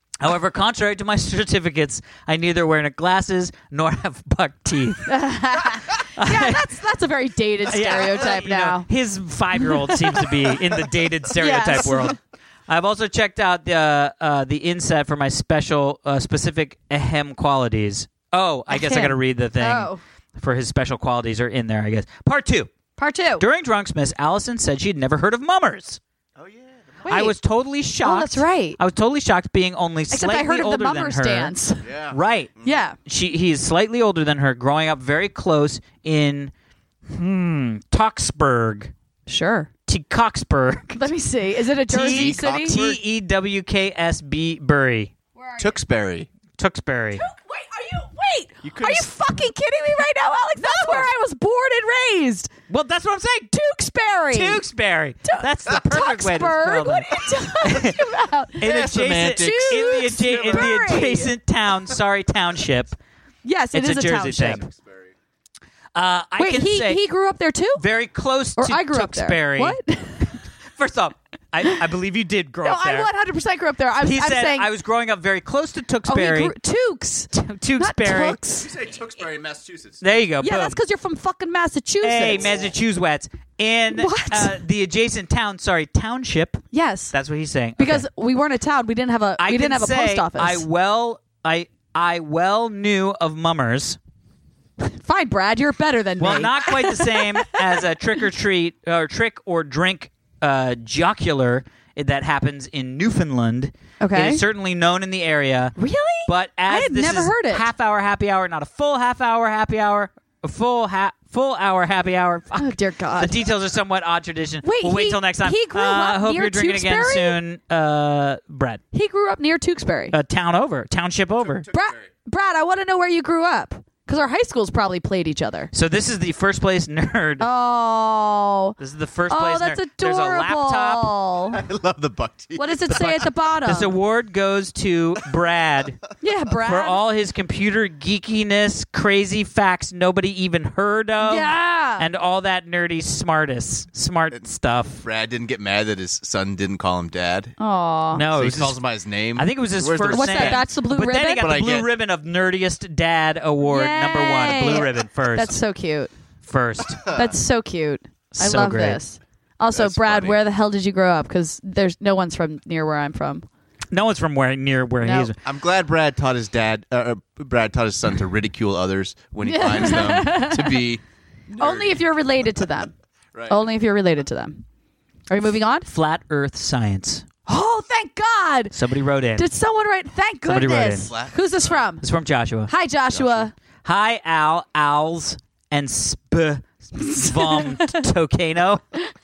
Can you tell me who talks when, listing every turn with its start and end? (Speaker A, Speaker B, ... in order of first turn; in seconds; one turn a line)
Speaker A: 0.2-5.2
Speaker B: 5.1-8.9
Speaker A: 6.2-6.7
Speaker A: 7.7-22.7
Speaker B: 9.6-10.6
Speaker B: 11.3-12.2
Speaker B: 18.7-20.0
Speaker B: 23.0-23.5
Speaker A: 23.4-26.0
Speaker C: 26.4-27.1
Speaker B: 27.1-27.4
Speaker A: 27.1-31.6
Speaker B: 28.0-28.8
Speaker B: 30.1-31.9
Speaker C: 31.8-32.8
Speaker A: 32.1-32.5
Speaker B: 32.6-33.0
Speaker A: 33.0-36.5
Speaker A: 37.1-38.9
Speaker B: 39.3-39.7
Speaker A: 39.9-41.0
Speaker B: 41.0-42.8
Speaker A: 41.9-45.1
Speaker C: 42.0-43.0
Speaker B: 45.4-45.7
Speaker C: 45.6-46.3
Speaker A: 46.6-47.2
Speaker B: 47.2-52.5
Speaker C: 48.6-49.1
Speaker A: 50.6-51.1
Speaker A: 52.7-53.5
Speaker B: 53.5-54.6
Speaker A: 54.3-58.0
Speaker B: 55.2-61.3
Speaker A: 58.6-63.0
Speaker C: 58.6-60.9
Speaker B: 63.4-64.7
Speaker A: 63.7-64.7
Speaker C: 64.7-65.1
Speaker A: 65.9-67.0
Speaker B: 66.4-67.8
Speaker A: 67.8-69.8
Speaker B: 68.6-70.4
Speaker A: 70.7-73.1
Speaker B: 72.6-74.7
Speaker A: 74.0-76.5
Speaker B: 76.1-78.7
Speaker A: 77.3-78.4
Speaker C: 78.6-80.2
Speaker A: 80.0-80.8
Speaker B: 80.4-82.6
Speaker A: 82.0-88.1
Speaker B: 83.9-84.5
Speaker B: 86.7-87.1
Speaker B: 87.8-90.7
Speaker A: 89.4-94.0
Speaker B: 94.8-97.9
Speaker A: 96.2-118.8
Speaker B: 104.0-104.4
Speaker B: 105.8-107.7
Speaker B: 112.6-113.4
Speaker B: 114.6-117.4
Speaker B: 118.9-120.2
Speaker A: 120.1-121.7
Speaker C: 121.5-122.0
Speaker B: 121.7-125.7
Speaker A: 125.7-127.5
Speaker B: 127.4-128.8
Speaker A: 128.8-131.1
Speaker B: 129.3-131.6
Speaker C: 131.5-132.9
Speaker B: 132.6-133.9
Speaker A: 132.9-136.0
Speaker B: 136.2-137.0
Speaker A: 136.6-145.0
Speaker B: 141.2-142.1
Speaker C: 145.0-147.6
Speaker B: 147.6-148.2
Speaker A: 148.1-148.8
Speaker C: 148.3-150.7
Speaker A: 149.3-155.6
Speaker B: 150.1-151.5
Speaker C: 151.4-151.9
Speaker B: 153.6-156.1
Speaker A: 156.4-157.1
Speaker B: 157.1-163.4
Speaker A: 158.3-159.0
Speaker C: 159.7-160.4
Speaker A: 163.9-165.4
Speaker B: 165.0-165.3
Speaker C: 165.4-172.0
Speaker B: 169.4-170.8
Speaker B: 171.6-172.9
Speaker B: 173.5-174.6
Speaker B: 175.3-175.9
Speaker A: 175.9-177.3
Speaker B: 177.5-178.8
Speaker A: 178.7-179.5
Speaker B: 179.4-182.0
Speaker A: 180.5-181.1
Speaker C: 181.1-181.8
Speaker A: 182.0-182.7
Speaker B: 182.7-183.5
Speaker C: 183.1-183.5
Speaker A: 183.8-188.8
Speaker B: 187.0-188.0